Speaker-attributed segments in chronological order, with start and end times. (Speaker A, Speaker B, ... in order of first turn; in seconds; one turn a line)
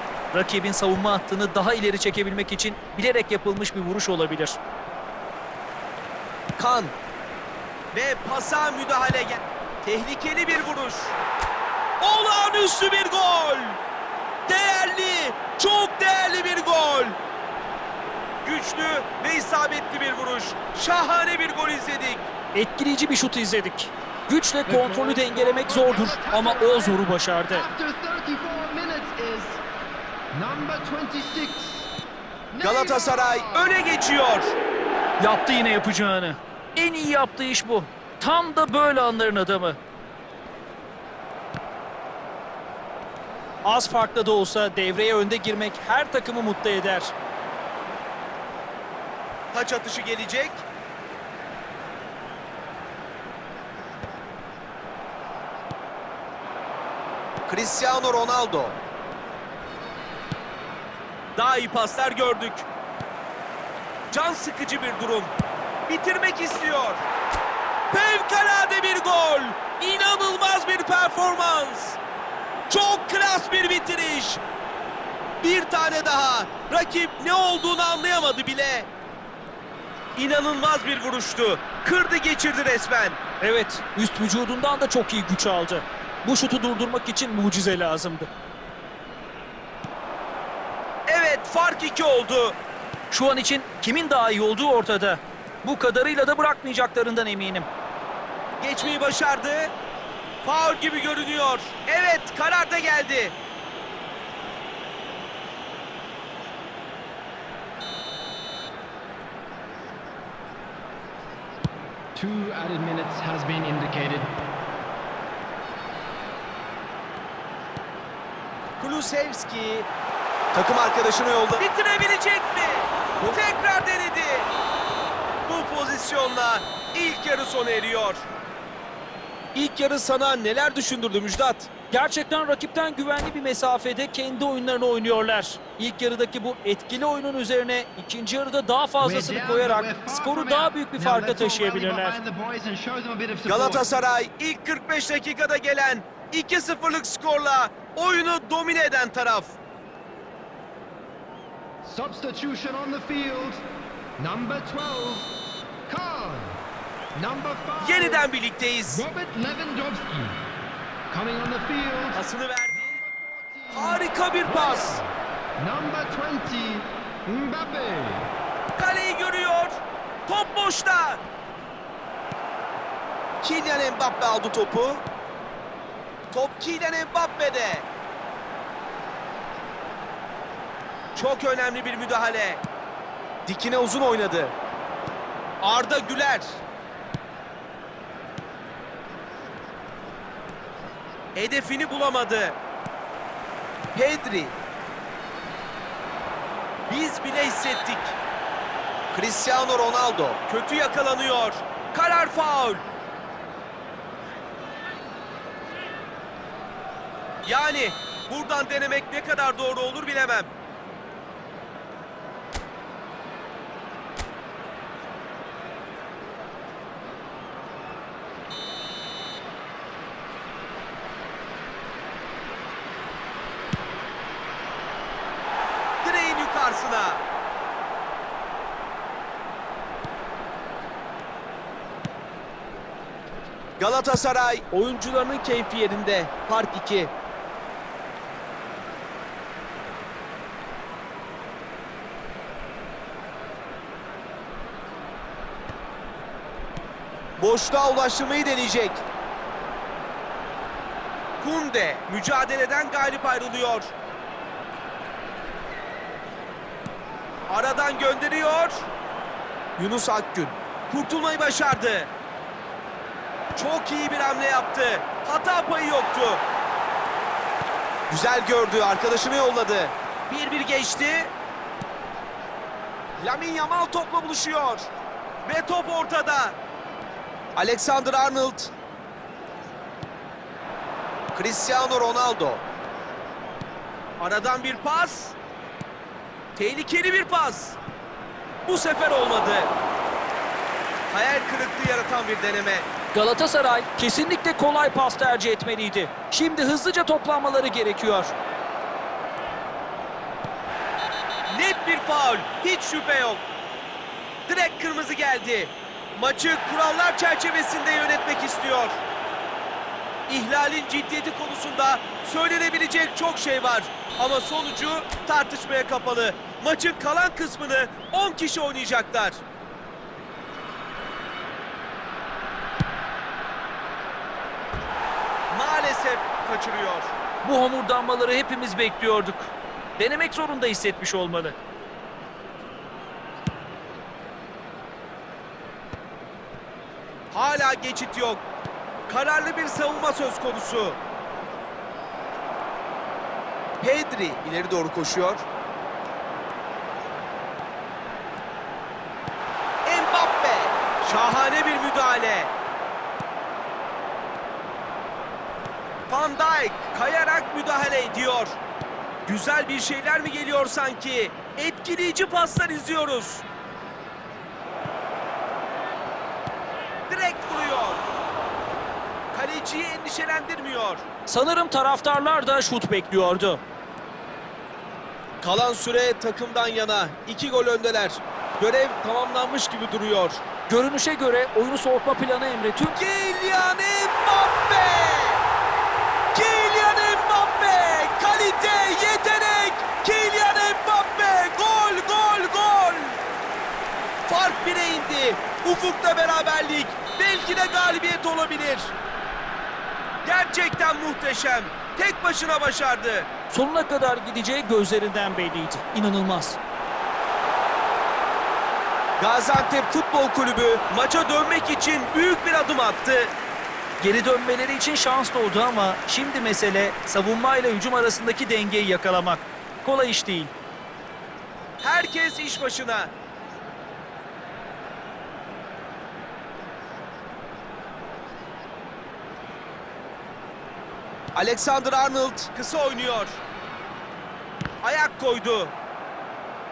Speaker A: 0.3-4.6
Speaker B: 6.6-6.9
Speaker B: 7.9-11.2
Speaker B: 12.0-13.8
Speaker B: 14.5-17.2
Speaker B: 18.4-22.3
Speaker A: 22.5-27.7
Speaker C: 24.6-29.6
Speaker C: 30.3-31.9
Speaker C: 32.5-33.9
Speaker B: 32.6-34.5
Speaker A: 35.2-39.8
Speaker A: 43.6-47.1
Speaker B: 49.5-50.6
Speaker B: 57.5-58.8
Speaker B: 61.4-62.6
Speaker B: 64.1-65.3
Speaker B: 65.9-67.0
Speaker B: 67.9-72.0
Speaker B: 72.7-74.4
Speaker B: 75.4-78.9
Speaker B: 80.2-83.2
Speaker A: 83.4-88.3
Speaker B: 91.1-92.5
Speaker A: 93.1-97.7
Speaker B: 98.6-99.7
Speaker B: 100.4-103.3
Speaker C: 112.1-114.4
Speaker B: 118.8-119.9
Speaker B: 120.5-124.5
Speaker B: 125.5-128.2
Speaker B: 129.5-131.7
Speaker A: 131.9-142.2
Speaker C: 139.0-143.9
Speaker B: 143.4-149.5
Speaker C: 151.8-153.6
Speaker C: 154.2-155.3
Speaker C: 155.9-156.6
Speaker C: 157.1-158.3
Speaker B: 157.8-159.1
Speaker C: 158.8-160.4
Speaker C: 161.1-165.1
Speaker B: 162.1-163.0
Speaker B: 163.7-165.0
Speaker C: 165.6-168.2
Speaker B: 168.8-171.2
Speaker B: 173.4-175.0
Speaker B: 176.3-177.9
Speaker B: 181.1-182.6
Speaker B: 183.4-184.5
Speaker B: 185.6-186.6
Speaker B: 191.3-192.6
Speaker B: 193.9-194.6
Speaker B: 196.9-198.2
Speaker B: 199.1-202.8
Speaker B: 207.4-210.5
Speaker B: 226.0-227.2
Speaker B: 233.8-237.1
Speaker B: 247.4-249.0
Speaker B: 251.4-253.9
Speaker B: 257.5-258.9
Speaker B: 259.8-262.1
Speaker B: 263.5-266.4
Speaker B: 268.1-271.3
Speaker B: 273.2-274.9
Speaker B: 275.4-276.6
Speaker B: 277.6-278.7
Speaker B: 281.3-282.6
Speaker B: 284.2-285.4
Speaker B: 286.6-287.8
Speaker B: 288.6-289.7
Speaker B: 291.1-292.9
Speaker A: 293.1-298.3
Speaker B: 301.5-303.4
Speaker B: 304.5-309.0
Speaker B: 310.3-319.4
Speaker B: 325.5-327.1
Speaker A: 327.4-331.6
Speaker B: 337.3-338.4
Speaker B: 339.1-341.0
Speaker B: 343.8-345.4
Speaker B: 349.9-352.5
Speaker B: 356.1-358.6
Speaker B: 359.3-363.4
Speaker B: 367.1-368.0
Speaker B: 369.3-371.0
Speaker A: 371.3-373.6
Speaker B: 375.4-380.4
Speaker A: 380.7-383.0
Speaker B: 382.9-385.4
Speaker B: 386.3-393.2
Speaker B: 394.3-398.9
Speaker B: 400.2-403.3
Speaker A: 403.5-406.6
Speaker B: 409.2-413.3
Speaker A: 414.0-420.5
Speaker B: 421.8-423.1
Speaker B: 431.3-433.4
Speaker B: 434.8-435.7